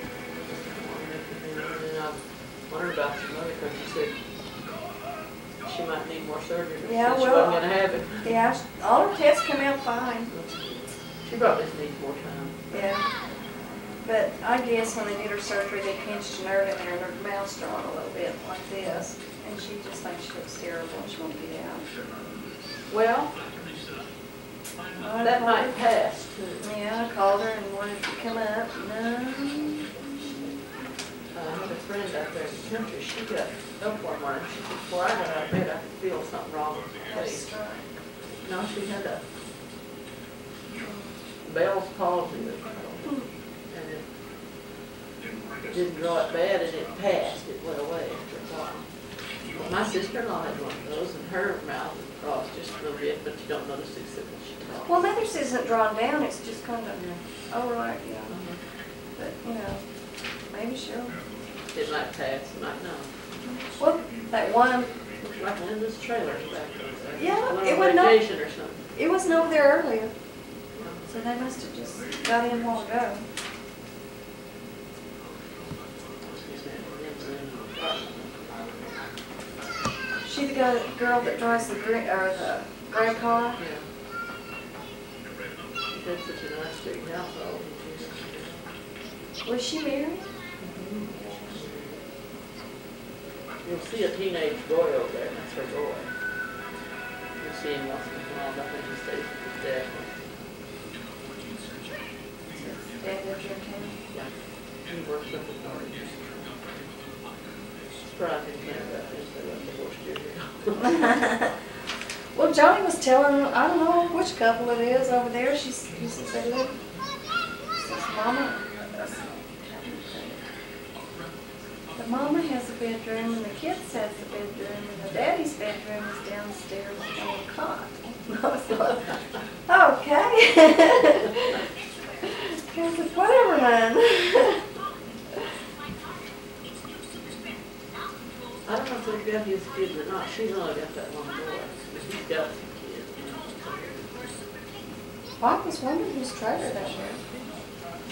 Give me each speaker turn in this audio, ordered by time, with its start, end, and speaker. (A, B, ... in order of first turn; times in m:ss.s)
0:00.3-0:04.2 A
0:05.6-0:08.4 A
0:06.8-0:10.3 B
0:10.3-0:12.6 A
0:12.7-0:13.3 B
0:14.0-0:22.2 B
0:22.9-0:23.4 A
0:25.0-0:25.8 B
0:25.2-0:26.7 A
0:26.6-0:30.0 B
0:31.3-0:37.5 A
0:37.1-0:38.0 B
0:38.4-0:39.2 A
0:40.8-0:41.1 B
0:41.4-0:44.0 A
0:45.6-0:55.0 A
0:54.9-0:58.4 B
0:57.0-0:57.2 A
0:58.3-0:58.6 A
0:59.1-1:01.3 B
1:01.7-1:03.1 A
1:03.7-1:05.0 B
1:05.2-1:08.9 A
1:07.2-1:08.3 B
1:08.9-1:10.2 B
1:10.8-1:11.1 A
1:11.1-1:13.2 B
1:16.2-1:18.8 A
1:20.2-1:23.6 B
1:23.6-1:23.8 A
1:25.9-1:28.7 A
1:29.4-1:30.3 B
1:30.6-1:32.0 A
1:33.6-1:36.1 A
1:37.4-1:40.5 A
1:42.5-1:44.0 B
1:44.1-1:46.9 A
1:48.0-1:51.2 A
1:50.9-1:51.6 B
1:52.3-1:56.8 B
1:57.7-2:00.4 B
2:02.0-2:11.6 B
2:12.2-2:14.6 B
2:18.6-2:24.2 A
2:25.4-2:27.2 B